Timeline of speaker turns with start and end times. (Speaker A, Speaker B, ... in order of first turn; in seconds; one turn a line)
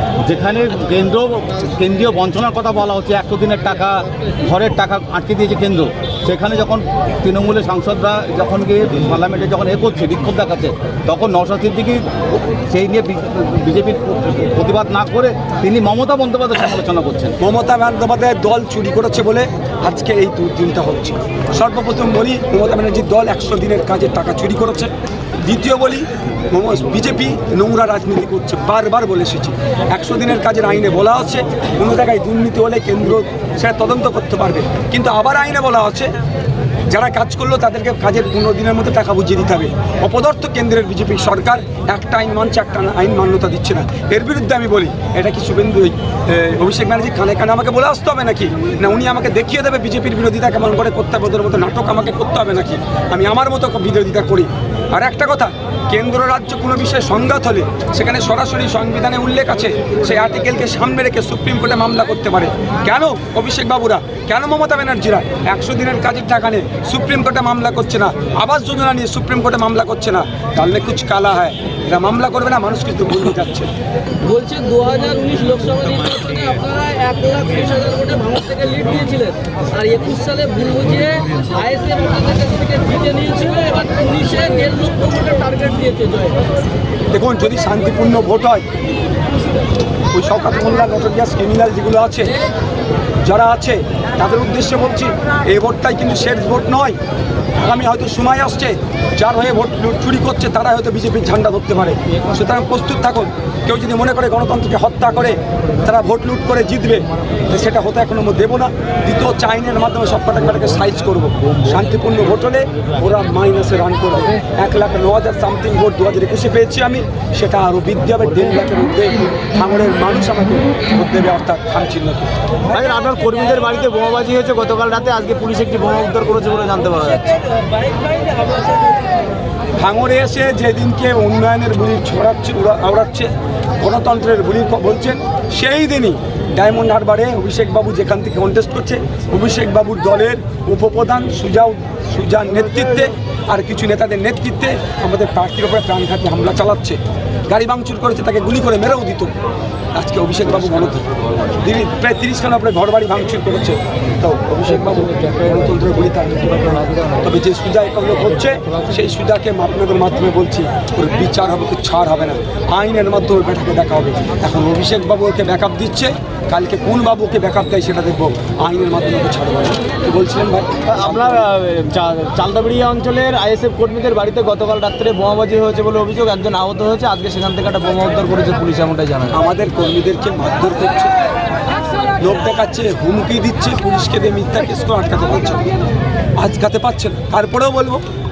Speaker A: 0.2-17.3
Speaker B: 17.4-24.9
Speaker B: 25.4-36.1
Speaker B: 36.9-73.7
Speaker C: 74.2-86.4
Speaker B: 87.1-88.7
Speaker B: 90.1-92.4
Speaker B: 93.2-97.0
Speaker B: 97.6-122.3
Speaker D: 122.7-127.3
Speaker C: 126.8-129.3
Speaker B: 129.8-149.3
Speaker B: 149.9-171.4
Speaker D: 170.9-179.4
Speaker B: 179.3-181.1
Speaker B: 182.2-185.7
Speaker B: 186.4-188.0